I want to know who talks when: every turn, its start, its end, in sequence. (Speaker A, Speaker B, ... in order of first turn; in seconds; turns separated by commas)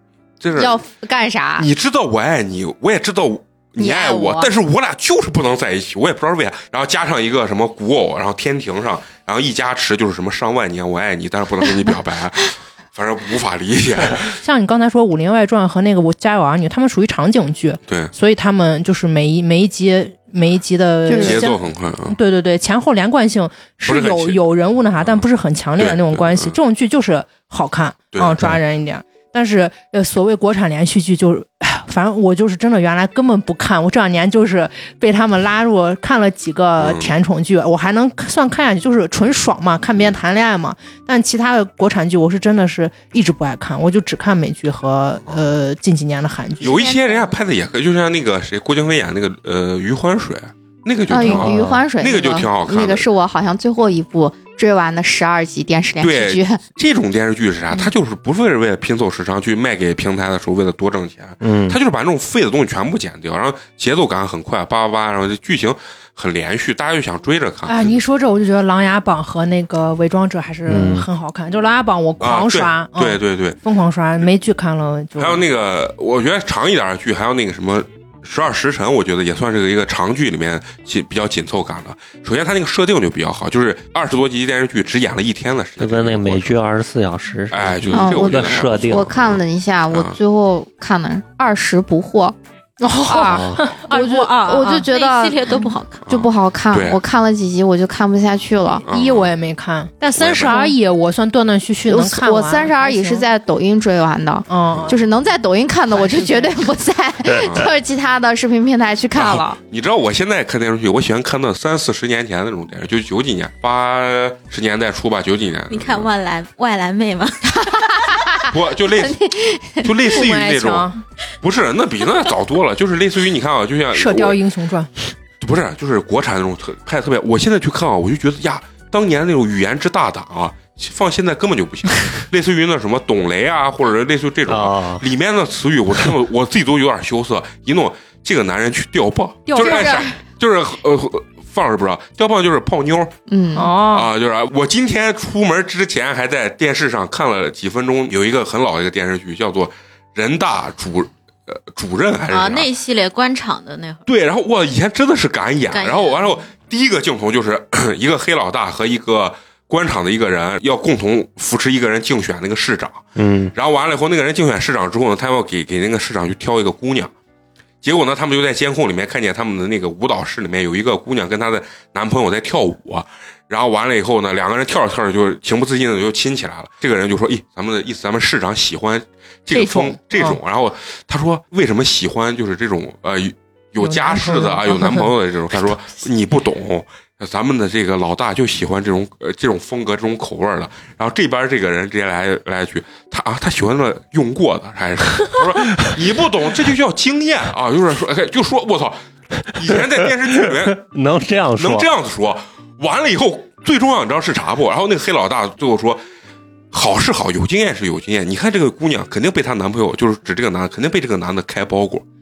Speaker A: 0.4-0.8, Speaker B: 0.6-1.7, Speaker A: 1.6-14.4, Speaker B: 3.8-4.5, Speaker C: 14.4-47.2, Speaker A: 17.9-18.1, Speaker B: 21.1-21.4, Speaker A: 21.2-22.1, Speaker A: 23.9-24.4, Speaker A: 25.8-26.6, Speaker A: 28.1-28.5, Speaker A: 36.8-37.1, Speaker A: 46.6-53.1, Speaker B: 51.1-56.6, Speaker D: 51.2-51.8, Speaker A: 56.0-68.0, Speaker D: 61.4-61.8, Speaker C: 67.7-75.4, Speaker D: 70.7-71.1, Speaker A: 72.2-73.6, Speaker A: 75.2-86.6, Speaker D: 85.8-89.1, Speaker A: 87.5-89.4, Speaker B: 87.9-92.4, Speaker C: 92.8-94.9, Speaker B: 93.1-98.8, Speaker D: 93.2-93.6, Speaker E: 94.0-96.0, Speaker A: 96.0-97.0, Speaker A: 98.9-99.3, Speaker C: 98.9-103.2, Speaker A: 100.1-100.6, Speaker B: 100.5-100.7, Speaker B: 101.8-109.6, Speaker C: 104.5-105.0, Speaker C: 106.0-106.5, Speaker A: 107.4-107.7, Speaker A: 109.1-116.1, Speaker E: 115.7-117.9, Speaker B: 117.5-120.1, Speaker A: 118.5-119.2, Speaker A: 119.8-120.9, Speaker C: 120.1-121.0, Speaker A: 121.4-124.4, Speaker C: 123.9-124.9, Speaker A: 125.4-143.1, Speaker D: 134.5-135.1, Speaker C: 139.5-140.1, Speaker B: 139.6-140.0, Speaker B: 143.3-143.7, Speaker C: 143.6-144.1, Speaker A: 143.8-152.7, Speaker E: 152.3-154.0, Speaker A: 154.1-167.1, Speaker E: 155.7-156.4, Speaker D: 163.2-163.5, Speaker A: 167.8-200.8, Speaker C: 179.5-180.4, Speaker C: 183.8-185.1, Speaker D: 200.3-201.9, Speaker A: 201.6-206.0, Speaker A: 206.7-212.0